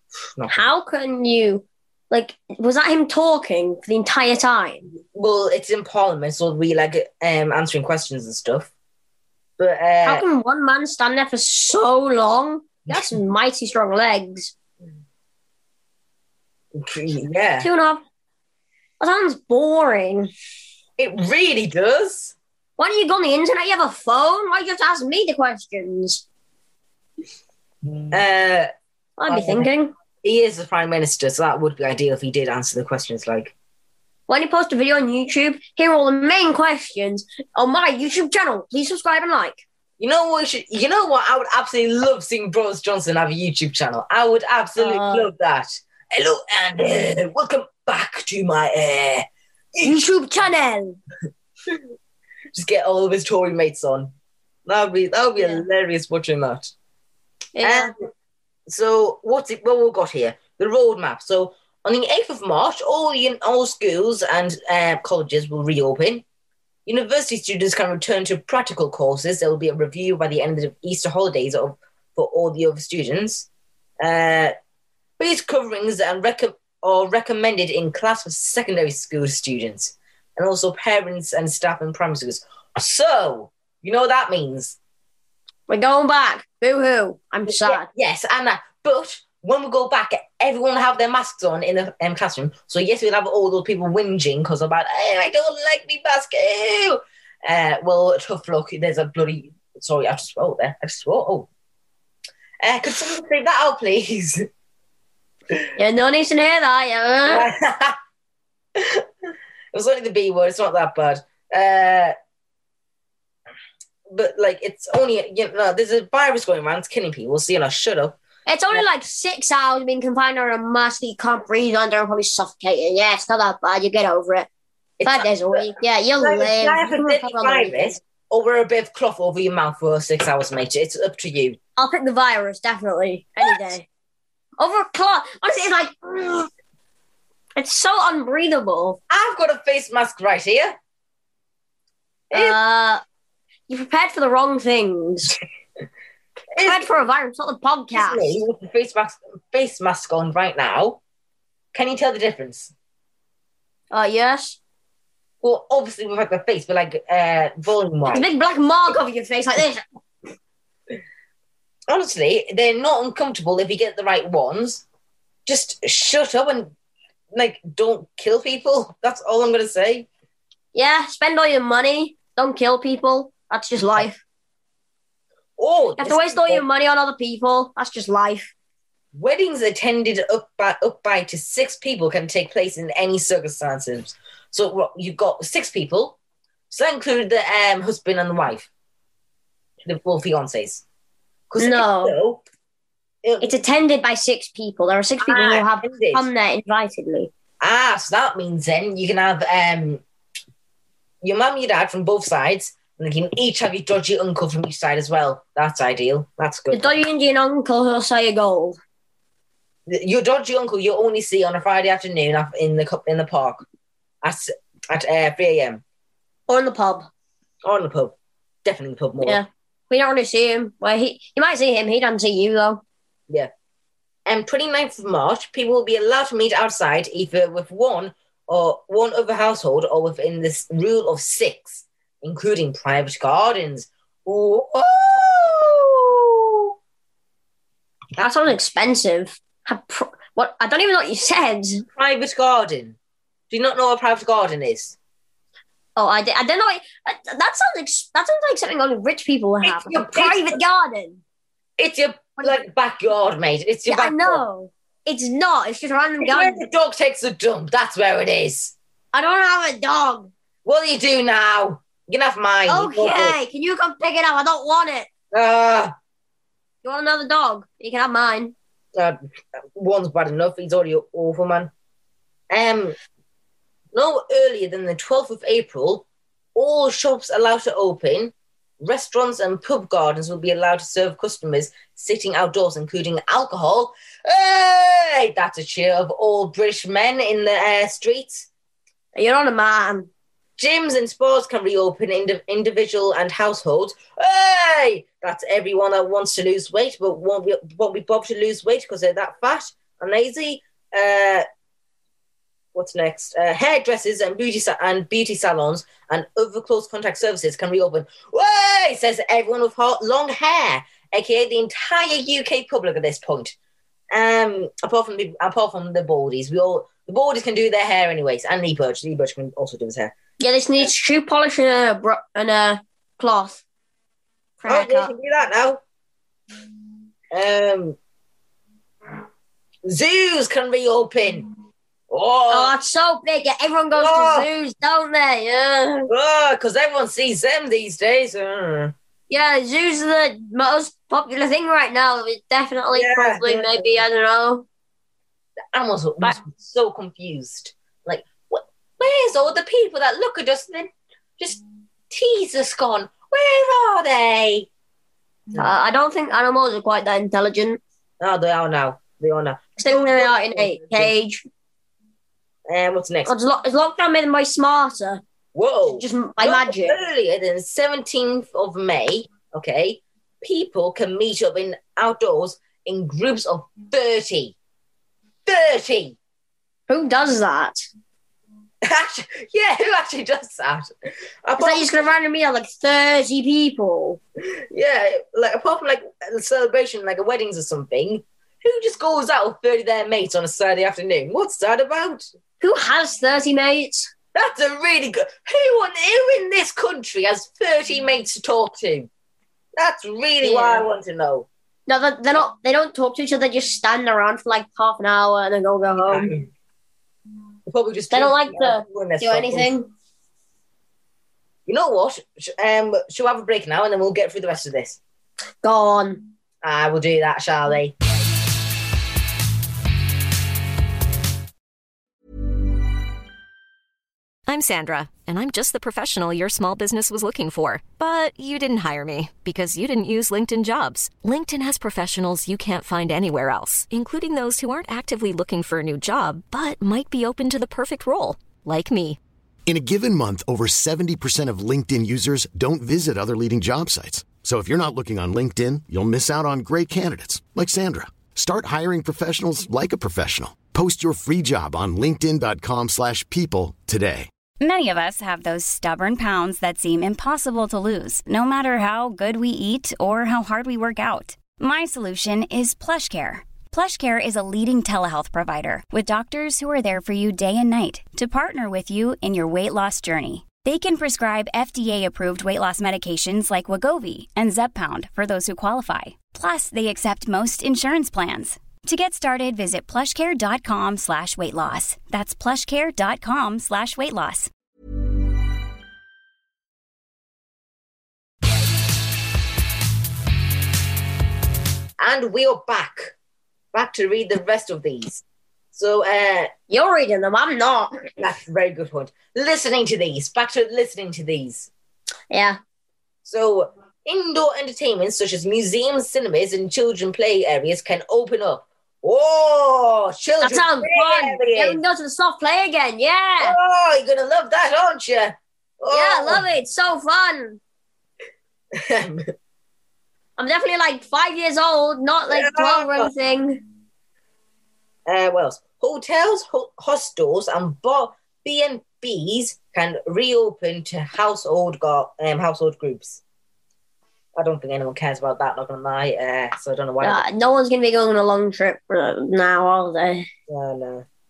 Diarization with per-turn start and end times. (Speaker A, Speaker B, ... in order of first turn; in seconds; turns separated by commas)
Speaker A: 0.4-0.7, Speaker B: 0.5-4.8, Speaker A: 5.1-8.7, Speaker A: 9.6-10.2, Speaker B: 10.0-14.5, Speaker A: 16.7-17.7, Speaker B: 17.6-18.0, Speaker B: 19.0-20.3, Speaker A: 21.0-22.3, Speaker B: 22.8-26.2, Speaker A: 28.1-28.7, Speaker B: 29.2-29.9, Speaker A: 29.3-29.7, Speaker A: 30.2-33.5, Speaker B: 34.3-39.6, Speaker A: 40.0-50.0, Speaker B: 44.8-45.3, Speaker B: 49.8-51.0, Speaker A: 52.5-54.1, Speaker A: 54.6-56.7, Speaker B: 55.4-55.6, Speaker B: 57.5-57.9, Speaker A: 57.6-58.0, Speaker A: 58.7-66.2, Speaker A: 66.8-73.5, Speaker A: 74.0-74.5, Speaker A: 75.2-84.8, Speaker B: 85.7-87.8, Speaker A: 87.5-101.5, Speaker A: 102.6-104.5, Speaker B: 105.8-107.5, Speaker A: 107.3-108.0, Speaker A: 108.8-109.1, Speaker A: 109.7-112.1, Speaker A: 114.1-118.2, Speaker B: 118.5-124.5, Speaker A: 125.0-131.6, Speaker B: 125.0-128.0, Speaker B: 131.8-133.8, Speaker B: 134.6-136.5, Speaker B: 137.6-139.0, Speaker A: 139.1-140.8, Speaker A: 142.3-142.6, Speaker B: 142.3-143.0, Speaker B: 143.7-145.4, Speaker A: 146.5-146.8, Speaker B: 146.6-148.4, Speaker A: 147.9-151.0, Speaker A: 151.7-152.7, Speaker B: 153.9-154.6, Speaker A: 155.4-158.3, Speaker B: 158.1-159.8, Speaker A: 161.9-164.8, Speaker A: 165.4-166.7, Speaker A: 167.3-170.1, Speaker B: 170.7-174.2, Speaker A: 175.6-176.6, Speaker B: 176.0-178.5, Speaker A: 179.1-186.2, Speaker A: 186.7-188.7, Speaker A: 189.8-190.8, Speaker A: 191.5-192.4, Speaker B: 191.6-192.1, Speaker A: 193.2-193.5, Speaker B: 193.4-197.3, Speaker A: 195.2-196.3, Speaker A: 197.6-200.0, Speaker A: 201.2-206.9, Speaker B: 206.7-208.8, Speaker A: 209.9-213.6, Speaker A: 214.2-215.8, Speaker B: 216.5-217.1, Speaker A: 217.6-219.4, Speaker B: 219.2-222.8, Speaker A: 224.2-236.7, Speaker B: 238.2-241.8, Speaker A: 241.9-243.0, Speaker A: 243.5-244.9, Speaker B: 245.9-251.2, Speaker A: 249.6-250.6, Speaker A: 251.8-254.4, Speaker B: 253.9-256.6, Speaker A: 256.2-258.7, Speaker B: 259.1-260.3, Speaker A: 260.6-263.4, Speaker B: 262.7-265.1, Speaker A: 265.3-265.9, Speaker B: 266.8-268.5, Speaker A: 269.7-271.7, Speaker A: 272.5-272.9, Speaker A: 273.9-288.5, Speaker B: 289.1-290.1, Speaker A: 290.6-301.4, Speaker A: 302.7-313.5, Speaker A: 314.1-320.1, Speaker B: 320.4-323.6, Speaker B: 324.6-325.1, Speaker A: 324.7-325.8, Speaker A: 327.3-328.0, Speaker A: 329.8-331.5, Speaker A: 332.1-332.7, Speaker B: 332.5-336.1, Speaker A: 333.9-334.5, Speaker A: 336.1-338.9, Speaker B: 339.3-344.6, Speaker A: 342.9-344.0, Speaker A: 345.7-354.7, Speaker B: 355.6-357.8, Speaker A: 358.2-361.1, Speaker B: 359.8-361.4, Speaker A: 362.7-363.3, Speaker B: 363.2-365.2, Speaker A: 365.5-374.6, Speaker B: 365.9-367.0, Speaker A: 375.4-376.2, Speaker B: 376.9-377.8, Speaker A: 378.8-380.9, Speaker A: 381.4-382.1, Speaker B: 381.6-384.2, Speaker A: 384.6-392.3, Speaker B: 392.6-394.1, Speaker A: 394.3-399.1, Speaker A: 399.8-401.5, Speaker B: 400.4-400.8, Speaker B: 401.9-406.3, Speaker A: 406.0-406.5, Speaker A: 407.7-409.7, Speaker B: 408.1-409.9, Speaker A: 411.6-415.0, Speaker B: 415.6-416.2, Speaker A: 416.6-417.9, Speaker C: 424.5-439.2, Speaker D: 439.6-454.3, Speaker E: 454.6-484.5, Speaker A: 492.0-493.1, Speaker A: 493.7-496.5, Speaker B: 496.7-498.2, Speaker A: 498.2-501.7, Speaker B: 502.3-502.6, Speaker A: 503.2-511.8, Speaker B: 510.4-513.6, Speaker A: 513.4-516.4, Speaker B: 515.9-517.6, Speaker A: 518.7-519.3, Speaker B: 520.4-523.6, Speaker A: 522.3-523.1, Speaker A: 525.0-533.2, Speaker A: 534.4-537.2, Speaker B: 537.0-540.3, Speaker A: 540.5-541.0